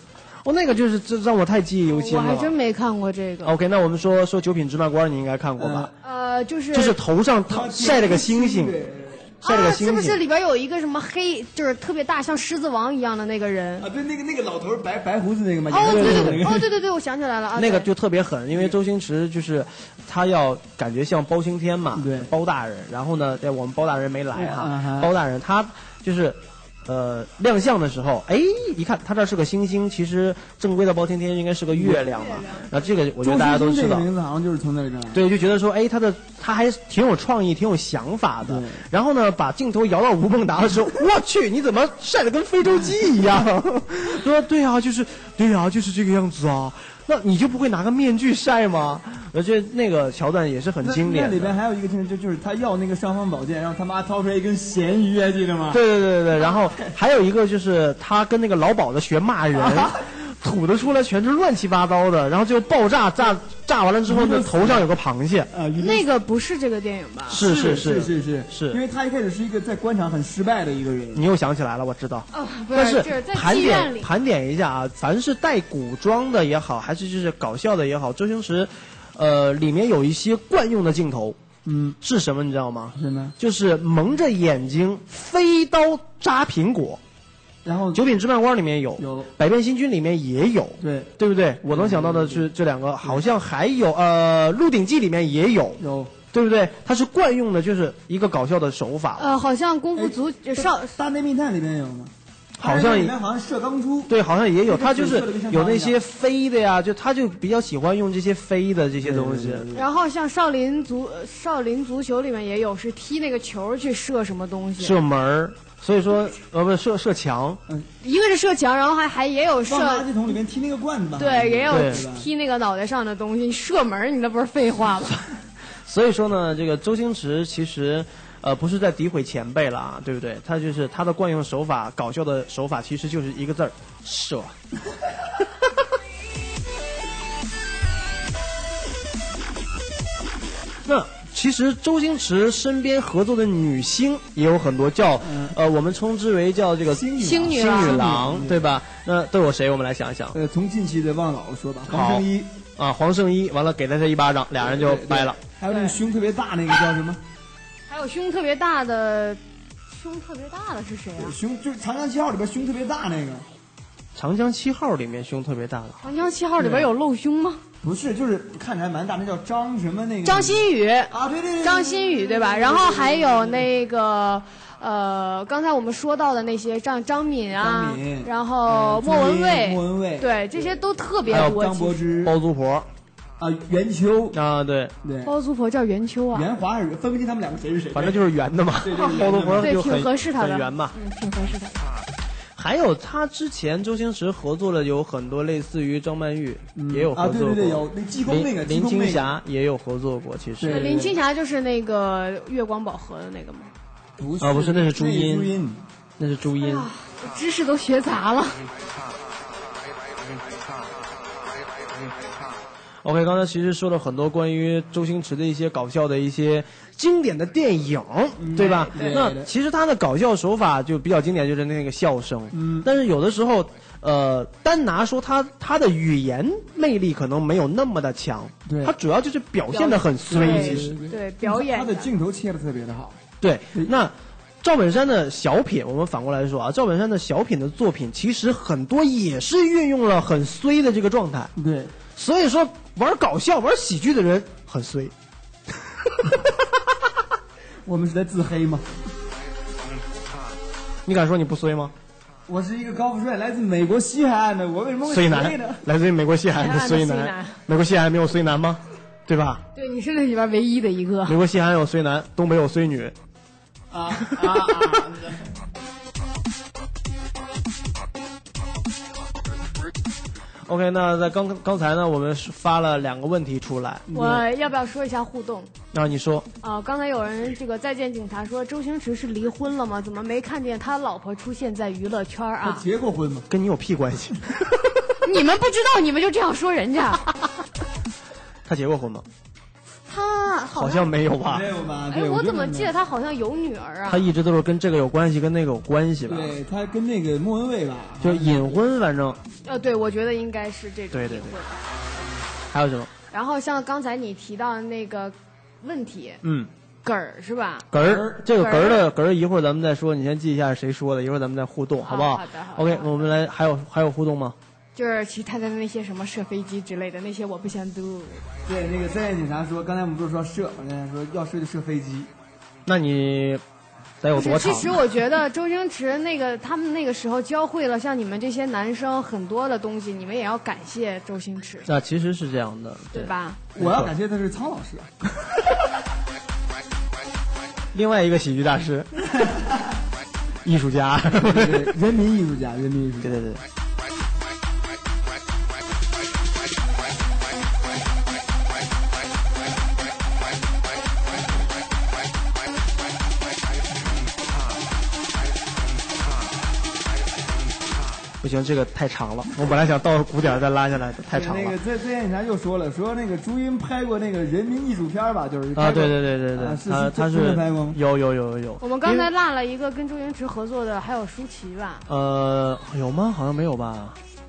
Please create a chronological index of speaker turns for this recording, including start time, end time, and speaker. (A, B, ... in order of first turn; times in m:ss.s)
0:00.4-0:02.5 A
0:01.9-0:03.6 B
0:03.4-0:05.9 A
0:05.6-0:05.9 C
0:06.0-0:07.0 B
0:06.7-0:08.8 A
0:07.5-0:09.3 C
0:09.4-0:10.2 A
0:09.4-0:13.9 B
0:13.8-0:16.7 C
0:15.7-0:17.9 B
0:15.8-0:16.4 A
0:17.6-0:34.1 A
0:22.0-0:22.3 C
0:24.3-0:25.1 C
0:31.7-0:32.1 C
0:33.2-0:35.2 C
0:35.1-0:51.6 A
0:38.4-0:38.8 C
0:50.8-0:55.8 C
0:55.7-1:05.5 A
0:59.6-1:00.0 C
1:04.1-1:04.8 C
1:05.5-1:06.1 C
1:05.8-1:07.4 B
1:07.3-1:08.8 A
1:07.3-1:11.2 C
1:11.2-1:21.4 A
1:12.3-1:14.1 B
1:21.6-1:22.0 C
1:22.0-1:27.0 A
1:23.0-1:23.3 C
1:27.6-1:28.0 C
1:27.9-1:39.3 A
1:29.0-1:29.3 C
1:30.8-1:31.1 C
1:31.7-1:32.5 C
1:35.8-1:36.1 C
1:39.2-1:41.0 B
1:40.0-1:44.1 C
1:42.6-1:43.2 A
1:44.1-1:49.7 A
1:44.6-1:46.0 C
1:49.0-1:49.9 C
1:49.7-1:55.0 B
1:54.8-1:57.6 A
1:58.0-2:00.1 B
1:59.7-2:02.3 C
2:01.2-2:05.2 B
2:01.7-2:02.0 A
2:05.9-2:14.6 A
2:20.8-2:30.4 A
2:25.2-2:25.6 C
2:26.9-2:28.7 C
2:27.2-2:28.1 B
2:30.3-2:32.5 C
2:31.9-2:32.3 A
2:32.8-2:35.4 A
2:34.6-2:37.2 C
2:35.7-2:36.0 B
2:37.9-2:39.4 B
2:39.9-2:41.4 B
2:41.2-2:43.5 C
2:44.2-2:46.0 A
2:46.0-2:47.6 B
2:46.6-2:46.9 C
2:47.8-2:53.7 C
2:50.2-3:02.0 B
2:57.5-3:02.4 C
3:01.3-3:01.6 A
3:02.2-3:02.9 A
3:03.4-3:04.4 C
3:04.3-3:04.9 A
3:05.0-3:05.3 C
3:05.2-3:06.5 B
3:06.3-3:08.2 C
3:07.9-3:11.0 A
3:08.8-3:09.8 C
3:09.6-3:11.9 B
3:12.6-3:21.0 A
3:16.8-3:19.3 C
3:20.6-3:21.2 C
3:20.7-3:23.7 B
3:24.2-3:25.8 C
3:24.4-3:25.5 A
3:26.2-3:26.9 A
3:26.6-3:28.6 B
3:33.0-3:51.0 A
3:38.4-3:39.5 C
3:42.5-3:42.9 C
3:48.7-3:48.9 C
3:49.7-3:52.1 B
3:50.3-3:53.2 C
3:53.4-4:01.5 A
4:01.6-4:01.9 C
4:02.2-4:05.1 A
4:07.8-4:08.9 C
4:11.1-4:11.9 A
4:12.5-4:15.8 C
4:15.0-4:19.6 A
4:16.6-4:17.6 B
4:19.8-4:21.4 B
4:21.3-4:23.2 A
4:23.9-4:25.4 C
4:30.7-4:34.4 A
4:34.1-4:35.7 B
4:34.1-4:34.4 C
4:35.9-4:36.5 A
4:36.6-4:42.8 B
4:42.6-4:43.5 C
4:43.5-4:44.9 A
4:45.2-4:47.3 B
4:48.7-4:49.3 A
4:50.1-4:51.1 B
4:50.7-4:51.7 A
4:51.4-4:52.9 C
4:52.1-4:54.3 B
4:54.1-4:56.6 A
4:56.3-4:58.8 C
4:58.2-4:59.4 A
4:59.6-5:01.8 B
5:01.1-5:01.6 A
5:02.7-5:03.1 A
5:03.3-5:06.4 B
5:06.4-5:06.7 A
5:07.0-5:07.9 B
5:07.9-5:14.6 A
5:08.0-5:08.4 C
5:08.5-5:09.1 B
5:12.0-5:13.3 B
5:15.0-5:18.4 B
5:18.7-5:22.3 C
5:22.9-5:23.6 A
5:24.2-5:25.0 A
5:24.4-5:31.9 B
5:31.9-5:34.1 A
5:33.1-5:33.6 B
5:33.8-5:35.1 C
5:37.9-5:39.2 A
5:40.6-5:41.9 A
5:41.4-5:43.4 C
5:43.2-5:43.6 A
5:58.4-6:01.8 A
6:01.3-6:08.0 C
6:05.8-6:09.3 A
6:08.8-6:12.0 B
6:12.1-6:14.2 A